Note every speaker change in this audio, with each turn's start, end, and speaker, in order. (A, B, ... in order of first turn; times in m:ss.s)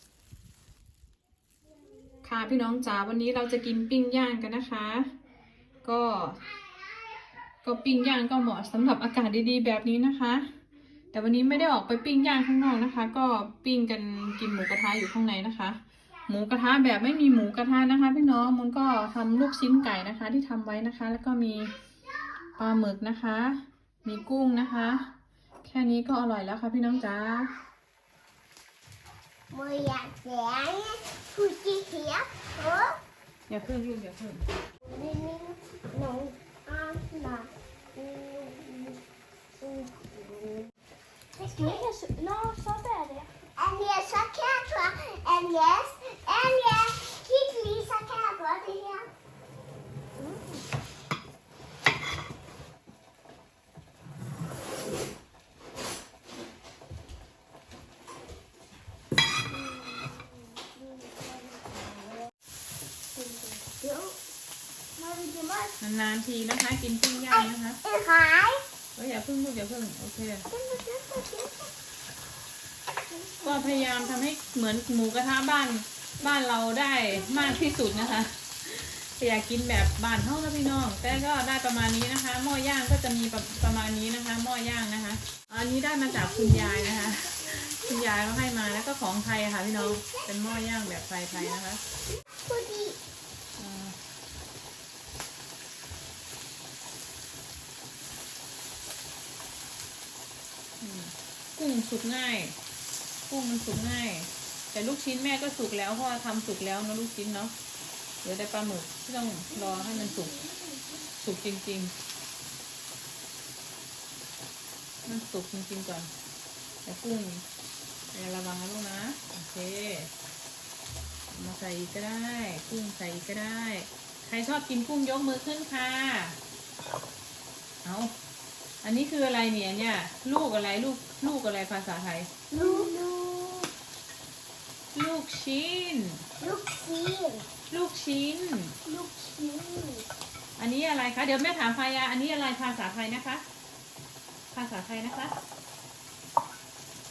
0:02.2-0:05.1 A
0:05.8-0:06.4 A
0:07.6-0:10.5 A
0:11.1-0:21.7 A
0:22.6-0:25.1 A
0:25.6-0:27.5 A
0:29.5-0:33.0 B
0:33.5-0:34.4 A
0:34.8-0:39.0 B
0:39.6-0:40.7 B
0:41.4-0:43.3 C
0:41.4-0:41.8 B
0:43.6-0:49.1 B
0:50.2-0:50.6 C
0:59.5-1:01.4 B
1:03.2-1:03.6 C
1:03.6-1:04.1 B
1:05.0-1:05.7 C
1:05.8-1:07.8 A
1:07.3-1:08.6 B
1:08.9-1:10.5 A
1:10.5-1:11.7 B
1:13.1-1:14.2 B
1:13.4-1:31.8 A
1:26.1-1:27.0 B
1:29.9-1:30.2 B
1:32.4-1:33.0 B
1:33.6-1:34.0 A
1:40.8-1:42.6 A
1:43.3-1:47.5 A
1:48.2-1:50.4 A
1:51.1-1:51.9 A
1:55.0-1:56.1 A
1:56.8-1:57.4 A
1:58.1-2:00.1 A
2:01.3-2:06.4 A
2:07.8-2:08.1 A
2:08.8-2:12.3 A
2:12.5-2:13.7 B
2:12.6-2:13.0 C
2:14.9-2:16.2 A
2:16.4-2:17.4 B
2:17.7-2:18.7 A
2:18.8-2:20.1 B
2:20.6-2:23.4 A
2:24.5-2:25.3 A